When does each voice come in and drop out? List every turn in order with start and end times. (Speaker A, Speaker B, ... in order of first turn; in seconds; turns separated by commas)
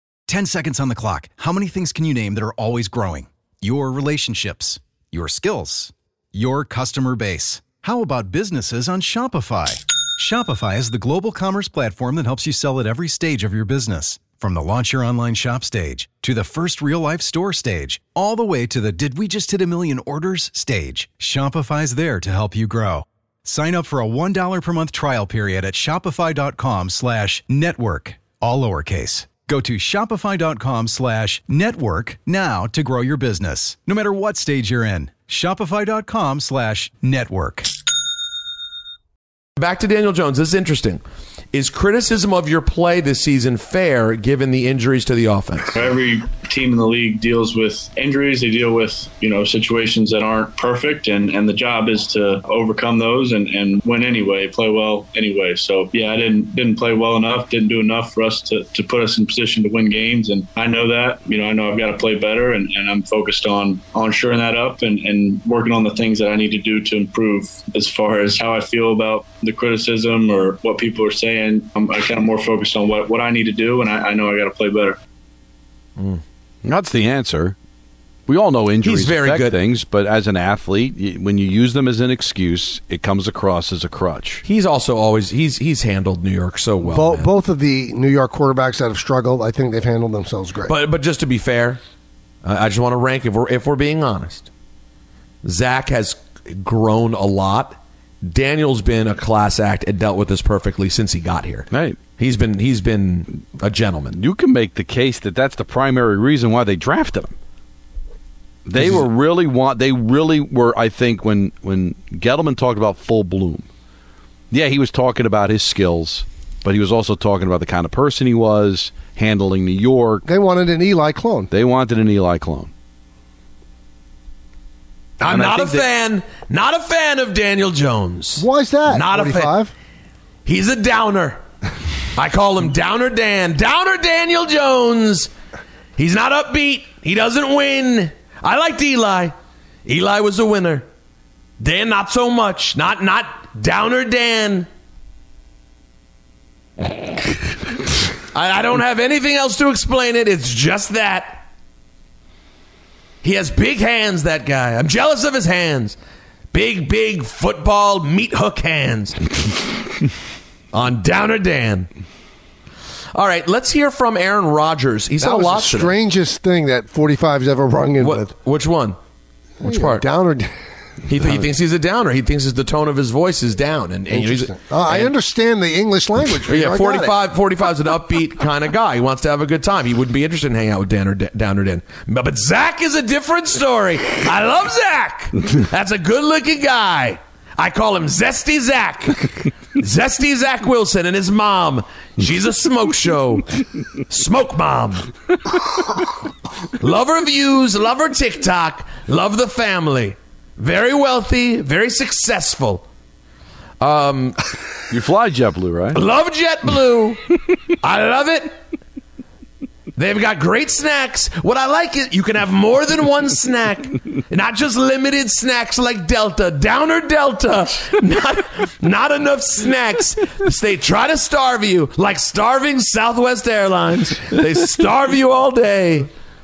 Speaker A: 0.3-37.7, Speaker B: 39.6-41.0, Speaker B: 41.5-45.7, Speaker C: 45.7-75.0, Speaker D: 76.6-77.5, Speaker D: 78.3-84.4, Speaker B: 78.8-79.6, Speaker B: 84.4-87.3, Speaker E: 86.8-90.7, Speaker B: 90.7-91.8, Speaker B: 92.4-94.5, Speaker B: 95.4-104.2, Speaker D: 101.7-102.0, Speaker D: 104.1-107.3, Speaker D: 108.7-113.7, Speaker B: 108.8-109.1, Speaker D: 114.5-120.2, Speaker E: 120.2-121.5, Speaker D: 121.5-122.7, Speaker B: 125.2-129.5, Speaker D: 125.2-125.9, Speaker E: 128.4-129.7, Speaker B: 130.4-131.4, Speaker B: 132.2-135.3, Speaker B: 136.0-139.3, Speaker B: 139.8-140.8, Speaker B: 141.6-144.7, Speaker B: 148.3-151.4, Speaker B: 153.2-156.0, Speaker B: 156.5-159.2, Speaker B: 160.7-161.9, Speaker B: 163.1-165.9, Speaker E: 165.2-168.3, Speaker B: 168.0-169.0, Speaker E: 169.6-170.5, Speaker B: 169.6-170.0, Speaker B: 171.1-175.1, Speaker E: 174.1-177.2, Speaker B: 176.4-193.5, Speaker B: 194.1-195.1, Speaker B: 196.8-202.8, Speaker B: 203.8-204.4, Speaker D: 204.9-206.0, Speaker B: 205.9-207.2, Speaker B: 207.8-208.5, Speaker B: 209.9-226.1